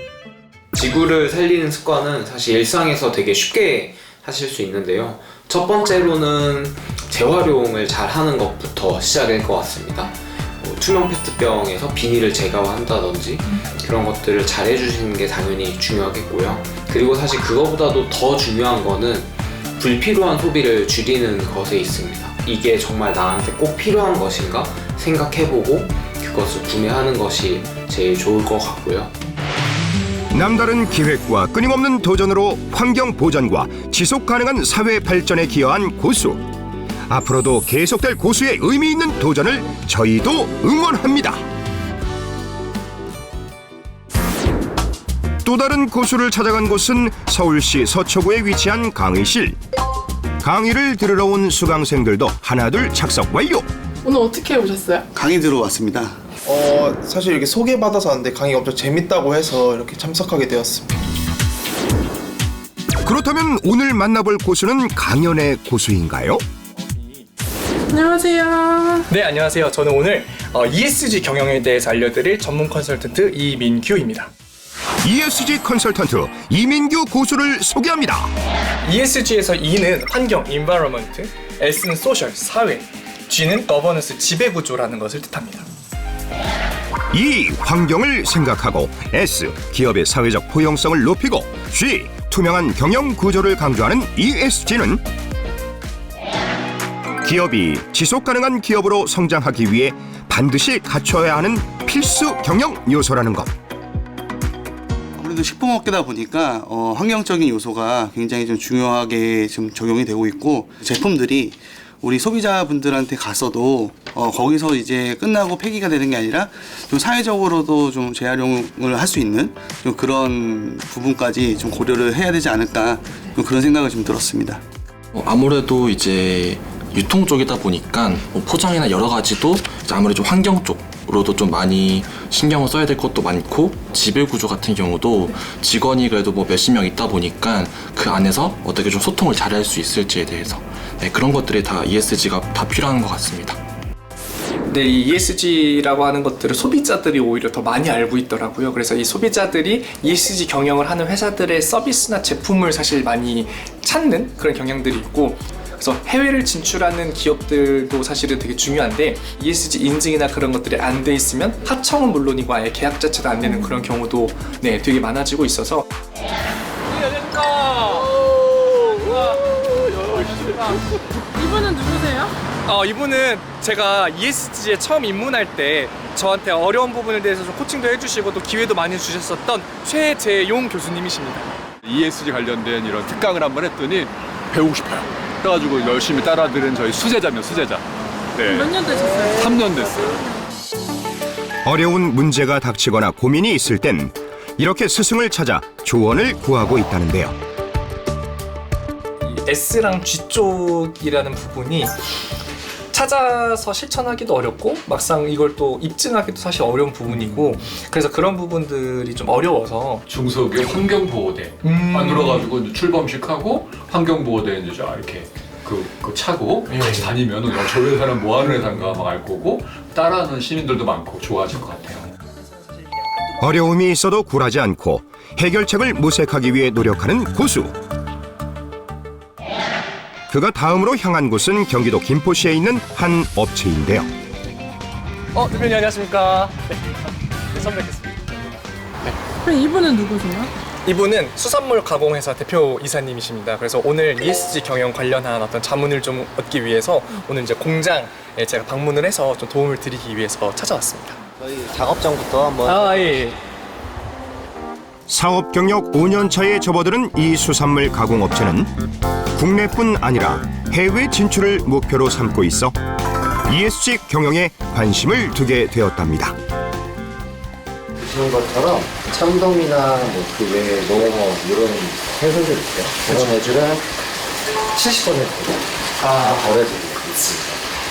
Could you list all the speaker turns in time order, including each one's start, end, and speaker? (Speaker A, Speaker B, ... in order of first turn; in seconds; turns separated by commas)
Speaker A: 0.8-29.1, Speaker B: 30.3-36.4, Speaker B: 37.1-41.4, Speaker B: 45.5-49.6, Speaker B: 50.4-53.7, Speaker C: 54.0-55.0, Speaker D: 55.1-56.2, Speaker E: 56.5-60.9, Speaker B: 63.0-66.4, Speaker F: 66.8-67.3, Speaker C: 67.9-69.0, Speaker F: 69.1-74.3, Speaker B: 75.0-78.3, Speaker F: 78.8-85.7, Speaker B: 87.1-95.0, Speaker B: 97.2-103.5, Speaker D: 105.2-124.6, Speaker G: 125.1-143.6, Speaker F: 144.7-165.9, Speaker F: 167.0-168.1, Speaker F: 168.8-169.5, Speaker C: 171.3-172.3, Speaker F: 172.7-181.5, Speaker H: 181.8-188.7, Speaker C: 188.3-190.3, Speaker H: 189.3-190.2, Speaker B: 191.7-197.4, Speaker F: 199.2-201.9, Speaker F: 202.9-210.1, Speaker H: 210.1-222.1, Speaker F: 211.6-212.5, Speaker B: 223.4-227.7, Speaker B: 230.3-234.1, Speaker F: 235.3-236.6, Speaker F: 237.5-238.3, Speaker C: 239.4-240.5, Speaker F: 240.8-251.2, Speaker I: 251.4-253.2, Speaker F: 252.7-253.4, Speaker B: 255.1-258.7, Speaker B: 259.4-262.8, Speaker B: 263.5-266.4, Speaker I: 268.0-273.9, Speaker I: 274.7-277.6, Speaker F: 276.1-276.6